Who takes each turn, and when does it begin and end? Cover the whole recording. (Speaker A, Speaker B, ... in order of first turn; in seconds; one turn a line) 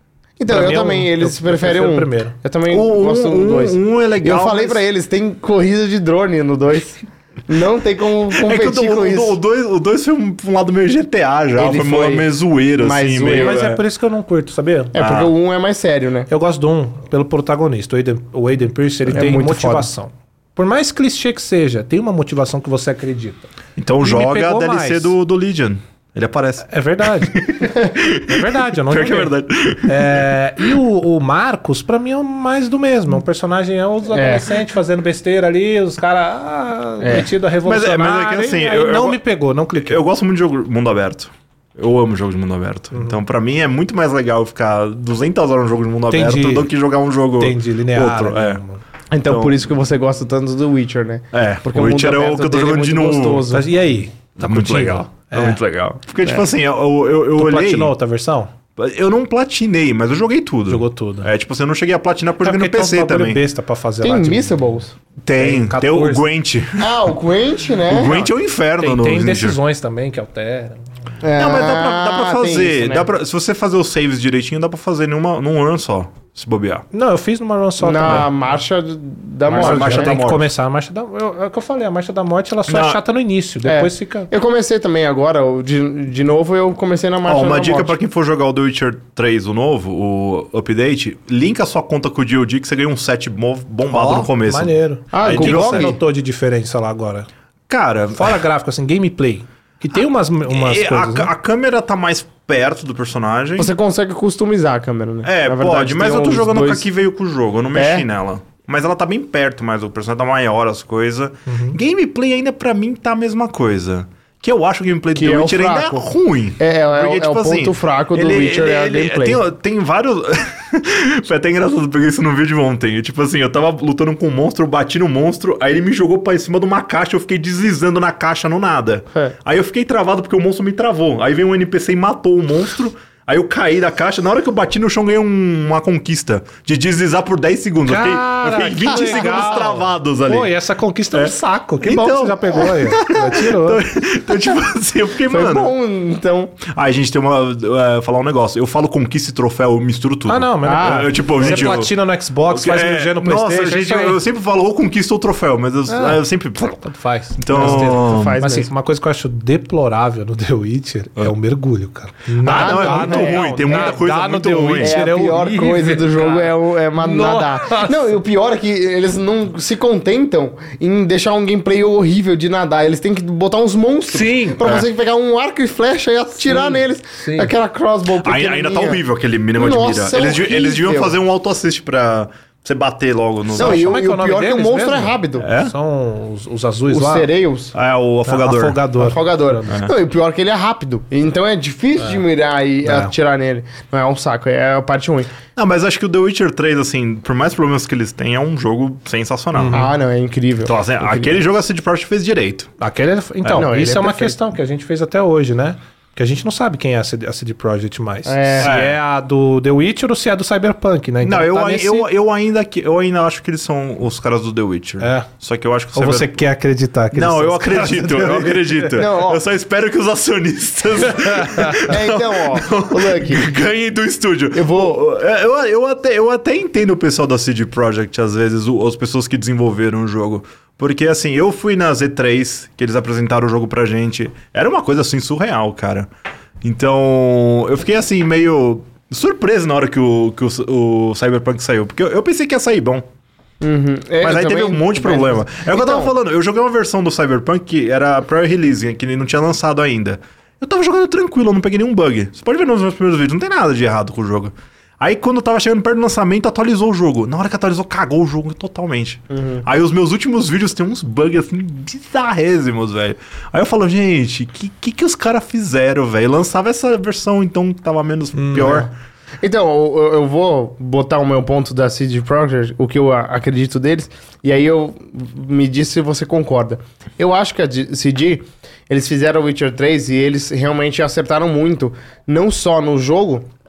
Speaker A: 0.4-9.3
Speaker B: 0.5-2.4
Speaker C: 2.7-4.8
Speaker C: 8.3-13.8
Speaker A: 11.6-13.7
Speaker B: 13.2-14.9
Speaker A: 14.9-16.3
Speaker C: 14.9-15.3
Speaker B: 16.3-23.5
Speaker A: 19.1-19.9
Speaker C: 23.8-30.7
Speaker B: 24.0-25.1
Speaker B: 26.7-40.0
Speaker A: 34.1-34.5
Speaker A: 37.0-37.3
Speaker C: 37.6-39.2
Speaker C: 39.8-48.6
Speaker B: 42.9-43.2
Speaker B: 46.1-46.7
Speaker B: 47.4-48.8
Speaker A: 49.1-53.7
Speaker C: 49.2-49.6
Speaker C: 51.3-53.5
Speaker B: 53.5-55.6
Speaker C: 54.4-57.9
Speaker B: 57.4-58.5
Speaker C: 58.8-63.4
Speaker B: 60.7-61.3
Speaker B: 62.4-64.7
Speaker A: 64.0-64.9
Speaker C: 65.2-67.1
Speaker B: 65.3-66.2
Speaker A: 66.8-68.2
Speaker C: 67.8-69.6
Speaker B: 68.0-70.8
Speaker A: 71.2-73.1
Speaker C: 71.3-76.8
Speaker B: 76.9-78.3
Speaker A: 77.8-80.2
Speaker B: 79.5-84.3
Speaker C: 79.5-80.5
Speaker C: 82.7-83.0
Speaker A: 83.6-87.9
Speaker C: 87.2-95.9
Speaker B: 93.9-97.3
Speaker A: 95.1-96.0
Speaker C: 97.7-98.4
Speaker B: 98.2-101.3
Speaker C: 100.5-103.7
Speaker A: 103.6-106.8
Speaker C: 105.2-140.5
Speaker A: 107.7-108.0
Speaker B: 111.5-111.8
Speaker A: 115.1-119.4
Speaker B: 137.8-143.8
Speaker A: 138.8-139.6
Speaker C: 141.1-145.7
Speaker A: 145.3-146.6
Speaker C: 146.6-151.9
Speaker B: 150.3-154.2
Speaker A: 150.6-151.7
Speaker C: 152.5-156.8
Speaker A: 155.9-156.2
Speaker B: 156.6-168.1
Speaker C: 157.4-158.4
Speaker A: 157.5-158.7
Speaker C: 162.4-165.0
Speaker A: 162.4-164.0
Speaker A: 164.8-179.0
Speaker B: 174.1-174.8
Speaker C: 174.6-174.8
Speaker B: 176.4-177.5
Speaker C: 178.2-183.9
Speaker A: 179.5-181.2
Speaker A: 183.5-185.5
Speaker B: 183.5-187.3
Speaker C: 185.4-185.7
Speaker A: 186.9-187.7
Speaker C: 187.7-188.8
Speaker B: 188.2-189.8
Speaker A: 189.0-195.3
Speaker B: 192.8-193.1
Speaker C: 195.6-199.9
Speaker B: 199.5-199.9
Speaker A: 199.7-201.4
Speaker C: 200.6-202.7
Speaker B: 202.8-212.1
Speaker A: 203.5-204.4
Speaker A: 208.2-208.7
Speaker C: 208.6-209.0
Speaker C: 211.2-216.4
Speaker B: 215.0-215.3
Speaker B: 215.9-218.9
Speaker C: 217.1-236.1
Speaker A: 218.9-219.4
Speaker B: 221.3-221.8
Speaker A: 221.7-223.5
Speaker A: 224.5-225.0
Speaker C: 236.6-243.0
Speaker A: 243.6-246.1
Speaker C: 244.2-268.9
Speaker A: 259.3-259.6
Speaker B: 268.3-268.8
Speaker A: 268.5-268.9
Speaker A: 269.4-283.4